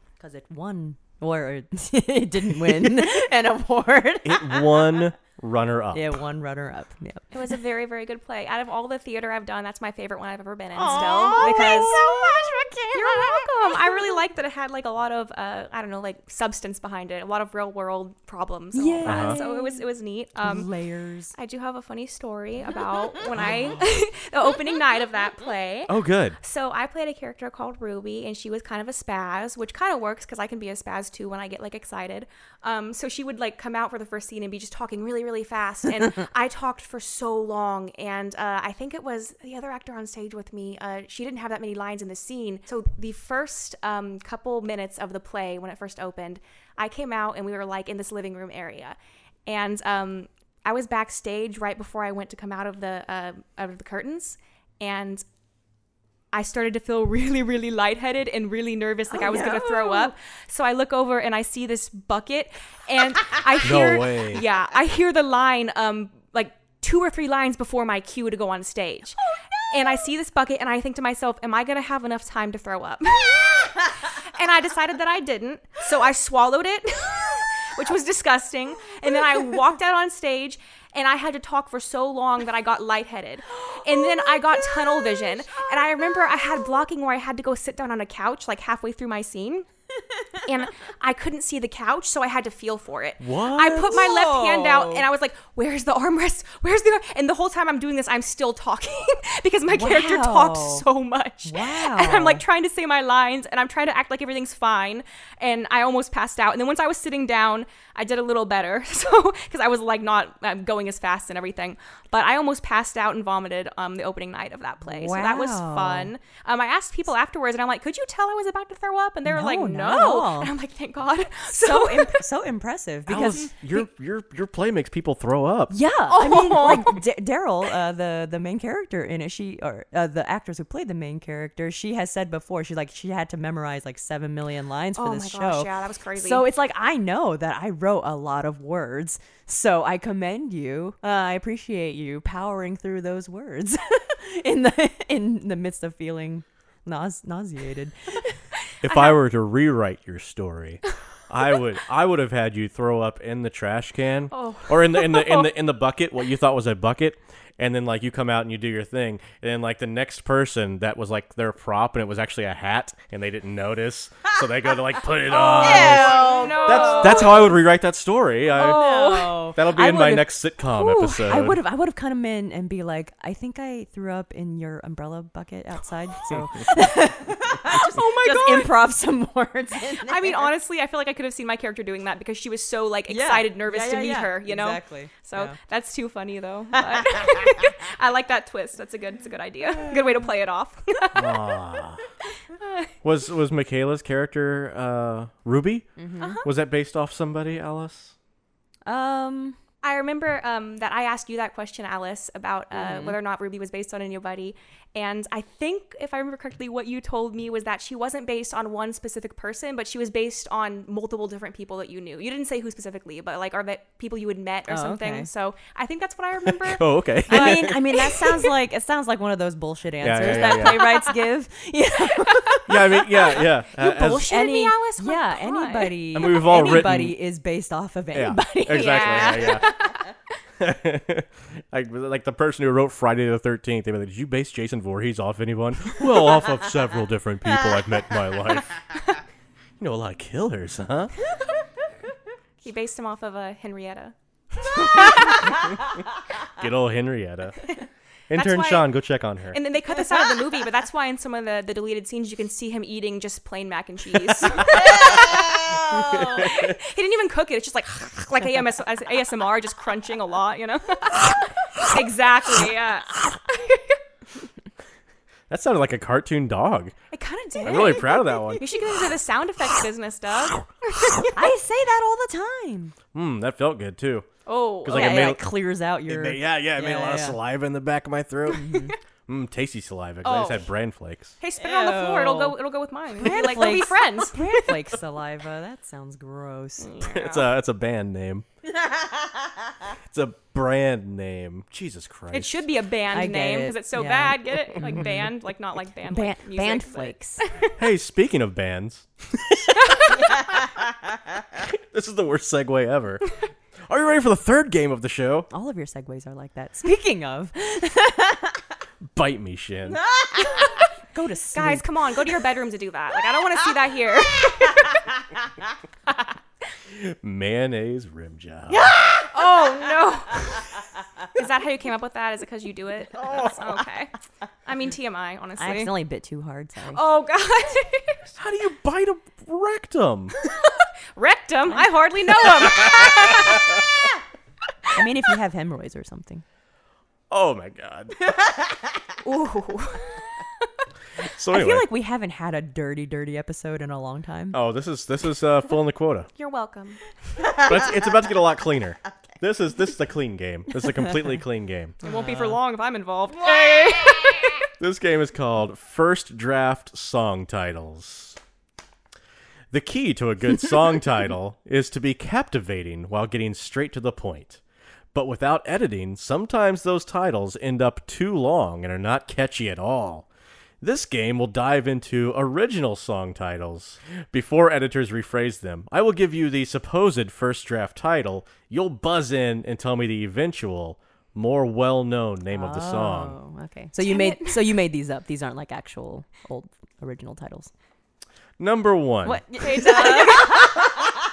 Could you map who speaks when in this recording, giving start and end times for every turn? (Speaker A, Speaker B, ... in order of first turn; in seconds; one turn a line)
Speaker A: 0.2-4.9
Speaker B: 4.2-6.2
Speaker A: 5.9-7.3
Speaker C: 7.3-12.0
Speaker A: 10.8-14.0
Speaker C: 12.9-20.7
Speaker A: 18.7-19.9
Speaker B: 19.1-19.4
Speaker A: 20.4-21.3
Speaker C: 21.4-55.2
Speaker B: 25.9-26.4
Speaker C: 56.3-69.2
Speaker A: 59.1-60.1
Speaker B: 63.6-64.5
Speaker C: 69.7-89.7
Speaker C: 90.4-122.3
Speaker B: 93.2-94.1
Speaker A: 93.9-95.1
Speaker A: 99.7-100.8
Speaker A: 101.5-102.4
Speaker A: 114.8-116.1
Speaker A: 119.3-120.5
Speaker A: 121.5-123.5
Speaker B: 123.1-125.8
Speaker A: 125.7-148.4
Speaker C: 126.1-127.0
Speaker C: 135.0-136.4
Speaker B: 148.8-168.9
Speaker C: 154.3-155.5
Speaker C: 165.3-167.6
Speaker A: 165.6-167.5
Speaker C: 168.5-169.5
Speaker A: 168.6-180.5
Speaker B: 169.5-171.6
Speaker C: 177.6-178.8
Speaker C: 179.9-191.5
Speaker A: 183.1-185.6
Speaker A: 186.8-187.6
Speaker B: 191.1-192.0
Speaker C: 192.6-192.9
Speaker B: 193.0-195.9
Speaker A: 196.0-196.4
Speaker C: 196.2-196.4
Speaker B: 196.4-198.2
Speaker A: 198.9-199.6
Speaker C: 199.8-218.3
Speaker A: 202.7-203.2
Speaker A: 214.7-215.3
Speaker B: 216.4-218.1
Speaker A: 217.3-222.7
Speaker B: 220.0-220.9
Speaker C: 220.2-221.1
Speaker B: 222.7-224.3
Speaker C: 223.1-226.4
Speaker A: 224.3-229.7
Speaker B: 226.1-227.2
Speaker B: 228.1-229.8
Speaker C: 228.7-230.1
Speaker B: 230.6-238.8
Speaker B: 239.8-241.1
Speaker C: 242.6-245.7
Speaker A: 244.8-245.7
Speaker B: 246.4-247.7
Speaker B: 248.3-249.6
Speaker C: 248.3-248.9
Speaker C: 249.5-264.0
Speaker A: 255.1-255.9
Speaker B: 255.9-256.7
Speaker B: 265.5-266.9
Speaker C: 267.1-271.4
Speaker B: 267.6-268.7
Speaker A: 271.3-272.9
Speaker B: 273.1-274.3
Speaker C: 274.5-275.4
Speaker B: 274.8-275.4
Speaker A: 274.9-277.4
Speaker B: 276.1-278.7
Speaker A: 278.5-279.0
Speaker B: 279.3-281.4
Speaker C: 280.2-280.7
Speaker C: 281.4-284.8
Speaker A: 281.6-282.6
Speaker A: 283.2-287.0
Speaker C: 286.8-287.5
Speaker B: 287.0-288.5
Speaker B: 290.1-292.7
Speaker C: 292.3-297.8
Speaker A: 293.1-295.3
Speaker A: 296.1-297.4
Speaker B: 297.8-299.9
Speaker C: 299.8-300.4
Speaker A: 300.2-300.6
Speaker B: 301.5-303.2
Speaker B: 303.9-305.5
Speaker A: 305.5-308.6
Speaker B: 309.1-310.0
Speaker A: 310.0-311.9
Speaker C: 310.5-310.8
Speaker C: 311.5-315.1
Speaker B: 316.9-319.0
Speaker A: 318.7-319.3
Speaker C: 319.3-320.8
Speaker C: 321.3-324.1
Speaker B: 323.2-323.7
Speaker C: 324.7-325.9
Speaker A: 325.6-327.0
Speaker C: 326.9-328.2
Speaker B: 328.4-330.3
Speaker C: 330.5-333.9
Speaker B: 332.6-333.8
Speaker A: 334.9-336.4
Speaker B: 337.3-338.3
Speaker C: 339.2-340.4
Speaker B: 341.2-341.9
Speaker A: 341.5-344.6
Speaker B: 344.5-346.3
Speaker C: 346.4-347.0
Speaker B: 347.5-352.0
Speaker C: 352.0-354.7
Speaker A: 352.0-352.6
Speaker B: 354.8-358.4
Speaker B: 359.7-364.6
Speaker B: 365.1-370.3
Speaker B: 370.8-383.4
Speaker A: 382.5-387.7
Speaker C: 384.0-384.7
Speaker B: 388.6-389.4
Speaker A: 389.2-391.1
Speaker C: 389.6-390.9